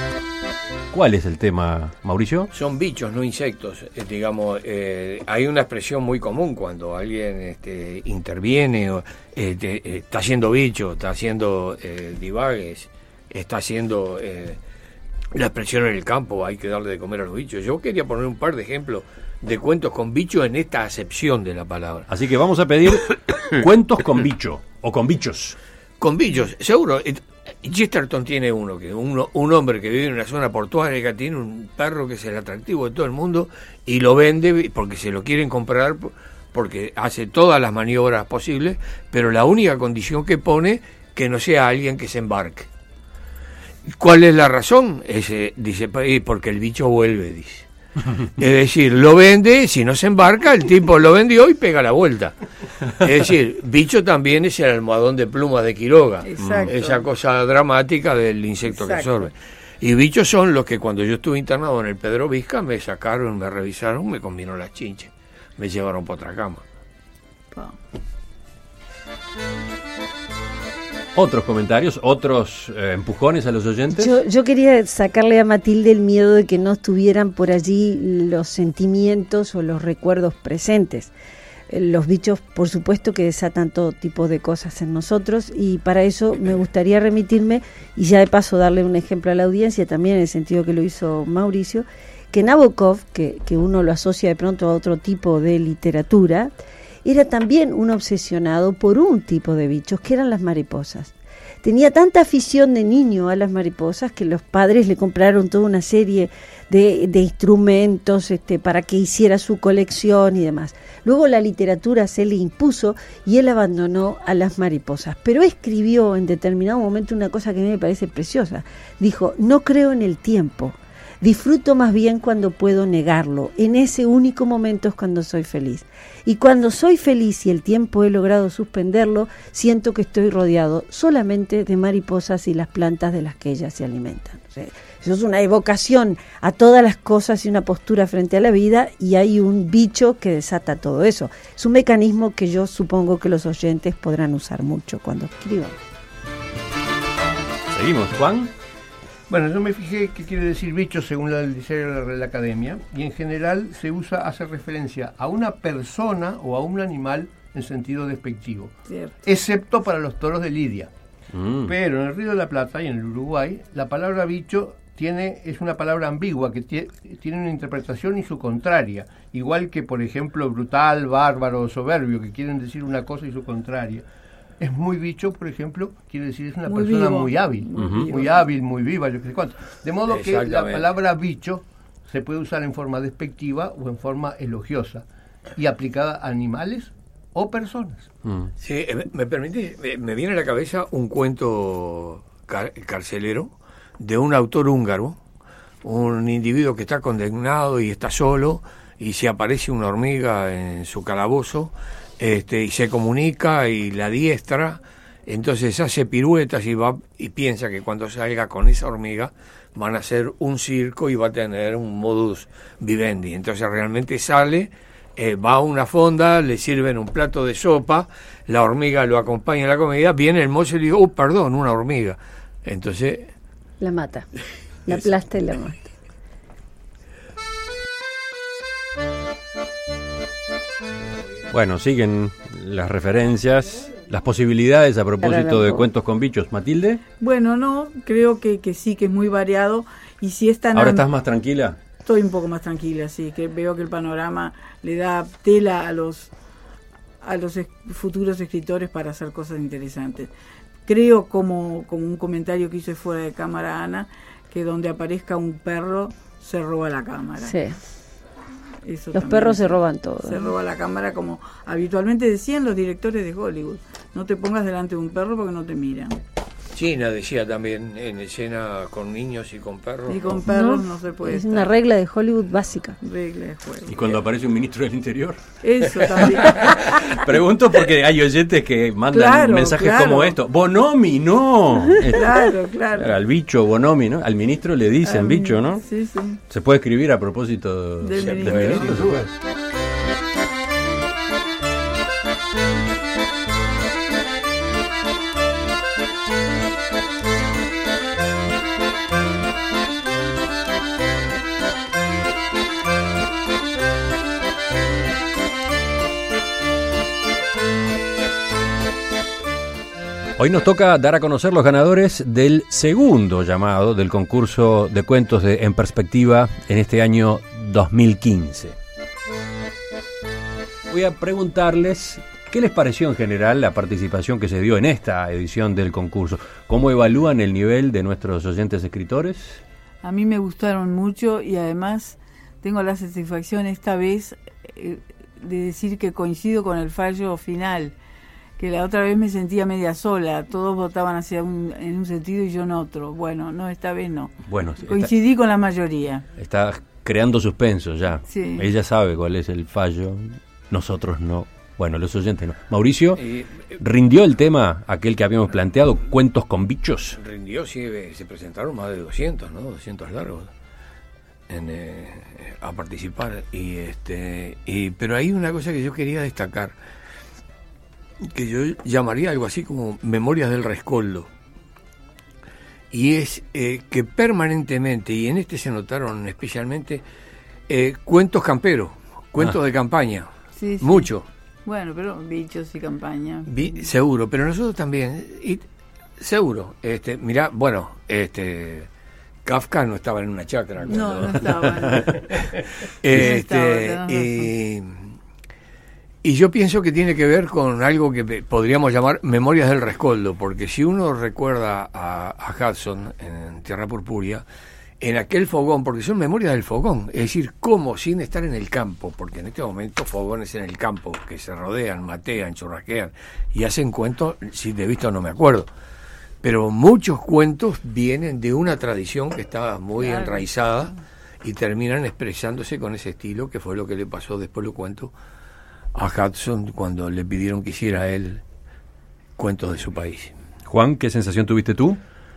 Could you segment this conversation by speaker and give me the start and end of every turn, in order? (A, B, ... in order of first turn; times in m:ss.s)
0:00.9-0:02.5 A
0:02.5-0:14.6 B
0:15.3-0:22.1 B
0:22.1-0:25.6 A
0:26.0-0:42.7 B
0:43.9-0:47.7 B
0:48.2-0:52.3 B
0:53.0-1:06.6 B
0:56.2-0:57.0 C
0:56.4-0:56.7 A
0:58.8-0:59.1 C
1:11.2-1:14.2 A
1:13.9-1:21.1 D
1:21.7-2:25.8 D
2:27.7-2:28.5 A
2:29.3-2:40.9 E
2:38.9-2:39.1 C
2:41.3-2:41.7 A
2:41.6-2:54.0 E
2:54.6-3:08.1 E
2:56.7-2:58.3 C
2:57.8-2:58.1 A
3:00.1-3:00.9 B
3:08.3-3:08.5 A
3:08.6-3:15.2 B
3:15.8-3:43.3 B
3:43.8-3:44.3 D
3:44.8-3:46.0 D
3:51.5-3:57.0 A
3:55.2-3:55.9 D
3:57.2-4:01.1 C
4:00.7-4:01.8 A
4:02.0-4:06.3 C
4:07.2-4:10.3 C
4:10.9-4:17.5 C
4:17.4-4:17.8 D
4:18.8-4:26.2 C
4:19.1-4:20.5 D
4:26.7-4:30.4 B
4:30.1-4:31.7 C
4:30.4-4:33.0 D
4:33.0-4:34.0 C
4:33.9-4:35.4 A
4:35.6-4:37.1 C
4:36.6-4:42.3 A
4:39.1-4:40.4 C
4:42.0-4:43.1 C
4:43.0-4:45.8 A
4:45.0-4:46.4 C
4:46.5-4:49.1 A
4:48.0-4:49.2 C
4:48.2-4:49.2 B
4:48.9-4:49.2 E
5:10.4-5:18.8 A
5:20.9-5:29.6 A
5:30.0-5:37.9 C
5:38.6-5:44.3 C
5:44.5-5:45.1 A
5:44.9-5:46.2 C
5:46.4-5:57.2 A
5:48.3-5:48.7 C
5:53.2-5:53.7 B
5:57.2-6:00.5 B
6:01.5-6:06.8 B
6:08.2-6:11.3 B
6:12.9-6:17.0 B
6:17.7-6:21.3 B
6:20.6-6:21.1 C
6:21.6-6:23.5 C
6:23.5-6:25.6 B
6:26.2-6:28.9 B
6:29.4-6:31.6 B
6:30.9-6:32.5 C
6:33.0-6:35.1 B
6:33.1-6:34.5 C
6:36.2-6:44.4 B
6:45.0-6:55.7 B
6:56.4-7:05.1 B
7:00.0-7:01.0 C
7:05.9-7:08.4 B
7:09.4-7:10.3 B
7:10.6-7:12.0 A